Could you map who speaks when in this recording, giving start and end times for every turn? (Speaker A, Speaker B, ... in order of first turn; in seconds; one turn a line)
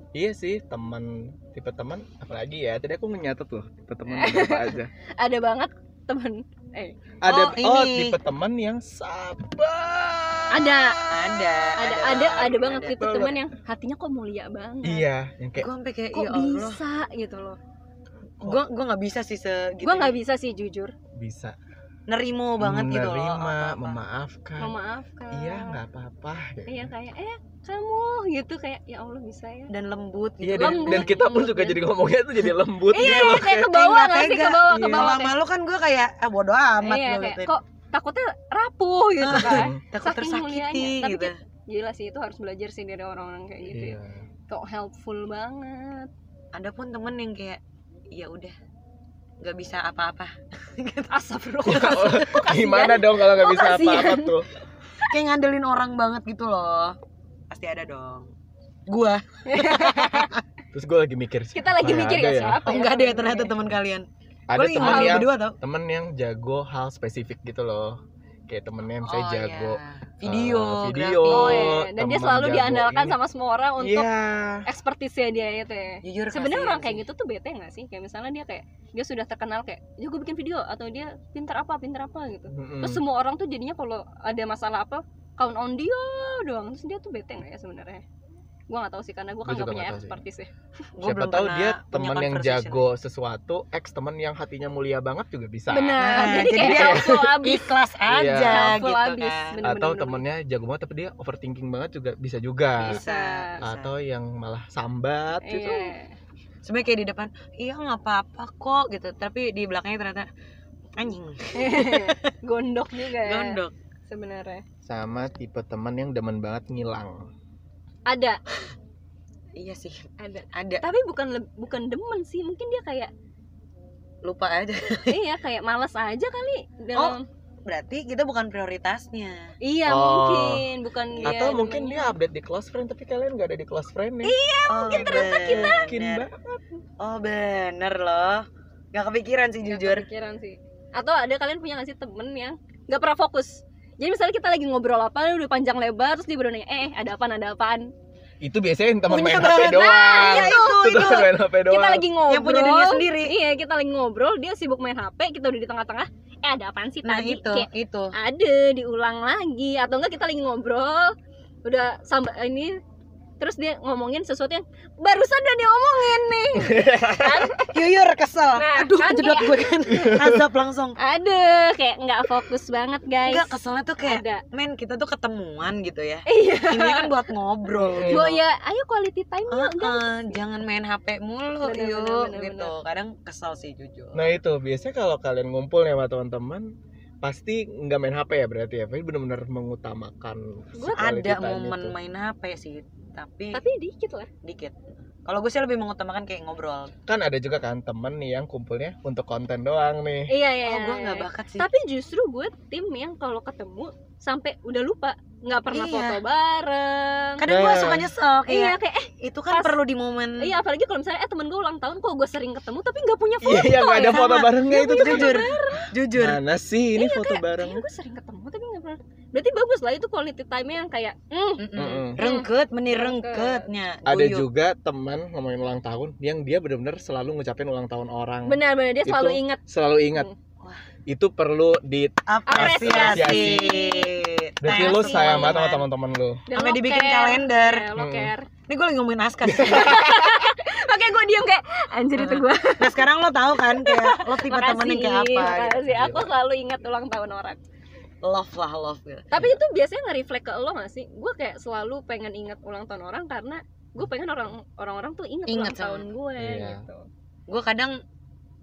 Speaker A: 0.1-4.9
Speaker B: 4.1-7.0
Speaker A: 7.2-11.3
Speaker C: 7.2-8.2
Speaker B: 10.5-11.0
Speaker C: 11.1-13.1
Speaker B: 11.8-15.1
Speaker A: 13.0-13.4
Speaker A: 14.8-15.7
Speaker C: 15.6-16.8
Speaker B: 16.1-17.6
Speaker C: 18.4-20.1
Speaker B: 19.8-20.9
Speaker A: 21.1-21.6
Speaker C: 22.1-24.0
Speaker A: 22.6-24.7
Speaker B: 24.6-25.8
Speaker A: 25.3-26.9
Speaker B: 26.7-29.7
Speaker C: 29.7-31.1
Speaker A: 30.4-33.7
Speaker B: 30.6-31.8
Speaker B: 32.9-35.4
Speaker C: 32.9-37.5
Speaker A: 34.7-35.2
Speaker B: 36.8-44.0
Speaker C: 39.2-41.4
Speaker A: 39.3-39.8
Speaker A: 43.7-44.2
Speaker B: 44.5-46.1
Speaker C: 46.5-47.6
Speaker C: 48.1-48.5
Speaker C: 49.4-51.1
Speaker B: 51.1-54.4
Speaker A: 51.6-54.5
Speaker C: 51.7-52.2
Speaker C: 55.0-57.0
Speaker C: 57.5-58.3
Speaker C: 58.9-60.4
Speaker B: 59.5-60.3
Speaker A: 60.7-62.7
Speaker B: 61.5-63.5
Speaker C: 62.6-65.6
Speaker A: 64.5-73.2
Speaker B: 64.8-65.2
Speaker C: 69.0-71.8
Speaker B: 71.3-74.1
Speaker A: 73.8-74.6
Speaker B: 74.7-88.0
Speaker C: 76.0-77.0
Speaker A: 82.5-83.0
Speaker B: 88.7-90.5
Speaker A: 89.4-90.2
Speaker C: 91.0-92.9
Speaker A: 91.0-97.4
Speaker B: 95.7-97.7
Speaker C: 96.0-99.6
Speaker A: 98.1-98.8
Speaker B: 98.5-100.2
Speaker A: 99.6-103.0
Speaker C: 102.8-103.9
Speaker B: 102.8-103.6
Speaker A: 103.6-105.9
Speaker B: 105.4-106.1
Speaker C: 106.6-110.3
Speaker C: 111.0-112.2
Speaker B: 111.5-113.6
Speaker C: 113.2-113.7
Speaker B: 114.1-114.6
Speaker A: 114.8-117.3
Speaker B: 118.1-118.4
Speaker C: 119.6-120.8
Speaker B: 120.2-123.1
Speaker C: 124.2-125.2
Speaker B: 125.1-127.2
Speaker C: 126.9-129.5
Speaker B: 129.6-132.1
Speaker A: 129.8-130.7
Speaker C: 131.1-131.6
Speaker A: 131.2-134.4
Speaker B: 134.2-135.9
Speaker C: 134.7-136.2
Speaker A: 134.9-136.8
Speaker C: 137.0-140.1
Speaker B: 139.6-147.9
Speaker A: 148.4-152.1
Speaker C: 149.1-151.3
Speaker B: 149.3-162.8
Speaker C: 152.3-153.3
Speaker C: 157.0-158.1
Speaker B: 163.4-167.7
Speaker A: 166.5-167.5
Speaker C: 167.7-171.0
Speaker B: 168.5-170.2
Speaker A: 169.9-170.4
Speaker B: 171.0-173.5
Speaker C: 173.2-178.4
Speaker B: 174.0-174.4
Speaker B: 176.2-177.2
Speaker A: 177.8-178.3
Speaker B: 178.0-180.4
Speaker C: 179.5-184.3
Speaker B: 181.6-182.7
Speaker A: 184.1-186.7
Speaker A: 187.2-192.0
Speaker C: 190.9-193.6
Speaker B: 193.5-194.3
Speaker C: 194.4-196.9
Speaker A: 197.1-200.3
Speaker B: 200.3-207.4
Speaker C: 200.6-201.7
Speaker C: 205.7-206.2
Speaker C: 207.4-210.5
Speaker A: 207.5-208.1
Speaker B: 208.5-209.8
Speaker B: 210.4-215.9
Speaker A: 213.4-215.5
Speaker C: 214.0-216.4
Speaker A: 216.1-217.8
Speaker B: 216.9-223.6
Speaker C: 221.6-224.5
Speaker A: 221.7-222.2
Speaker A: 224.1-230.3
Speaker B: 228.4-229.6
Speaker A: 231.1-233.8
Speaker C: 232.3-235.9
Speaker B: 232.5-234.1
Speaker A: 234.6-236.4
Speaker B: 234.7-235.6
Speaker B: 236.5-238.5
Speaker C: 236.5-237.9
Speaker A: 237.9-238.3
Speaker C: 238.7-240.1
Speaker A: 239.5-240.1
Speaker B: 239.6-247.6
Speaker C: 242.2-245.9
Speaker A: 245.9-246.3
Speaker C: 248.2-249.3
Speaker B: 249.3-257.0
Speaker C: 255.5-256.1
Speaker A: 256.4-256.8
Speaker C: 257.5-258.0